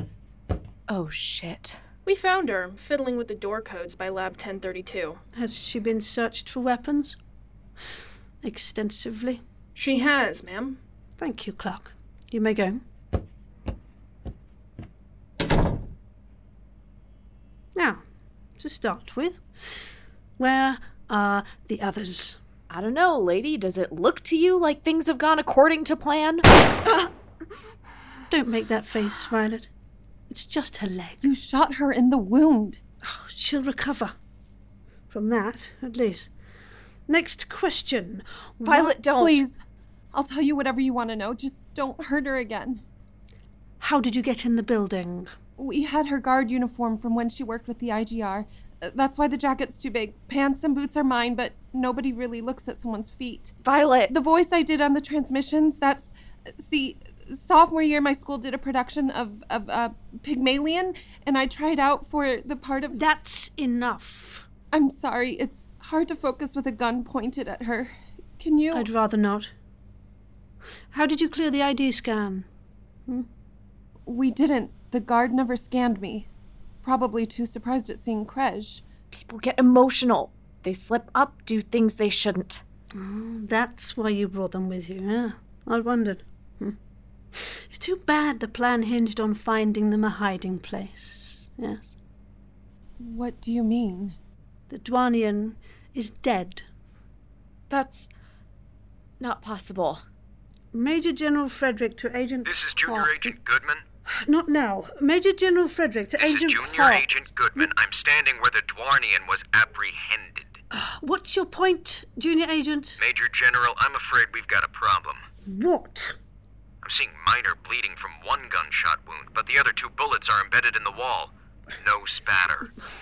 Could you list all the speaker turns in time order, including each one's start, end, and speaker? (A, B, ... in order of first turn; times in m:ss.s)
0:00.9-0:01.8 A
0:02.0-0:05.2 B
0:05.3-0:07.2 C
0:08.4-0:09.4 C
0:09.7-0:10.8 B
0:11.2-0:12.8 C
0:17.7-0:18.0 C
0:18.6-0:19.4 C
0:20.4-0:22.4 C
0:22.7-0:26.4 A
0:28.3-0:29.7 C
0:30.3-0:31.2 C
0:31.2-0:32.8 D
0:33.0-0:34.1 C
0:35.1-0:36.3 C
0:37.1-0:39.1 C
0:38.6-0:39.4 A
0:38.7-0:39.6 D
0:40.1-0:42.8 D
0:43.8-0:45.3 C
0:45.6-0:53.6 D
0:53.6-0:54.1 A
0:54.1-1:03.0 D
1:02.9-1:04.5 C
1:04.7-1:08.9 D
1:08.7-1:09.5 C
1:10.9-1:12.5 C
1:14.0-1:16.3 D
1:16.8-1:18.8 D
1:19.1-1:22.6 A
1:22.9-1:26.8 C
1:27.3-1:31.9 C
1:33.0-1:34.2 D
1:34.7-1:36.6 C
1:37.7-1:38.1 A
1:39.2-1:40.0 A
1:40.7-1:43.4 C
1:42.4-1:43.8 E
1:44.1-1:47.7 C
1:46.2-1:50.6 E
1:50.7-1:53.0 C
1:53.0-1:55.2 E
1:55.4-1:56.2 C
1:56.8-2:02.7 E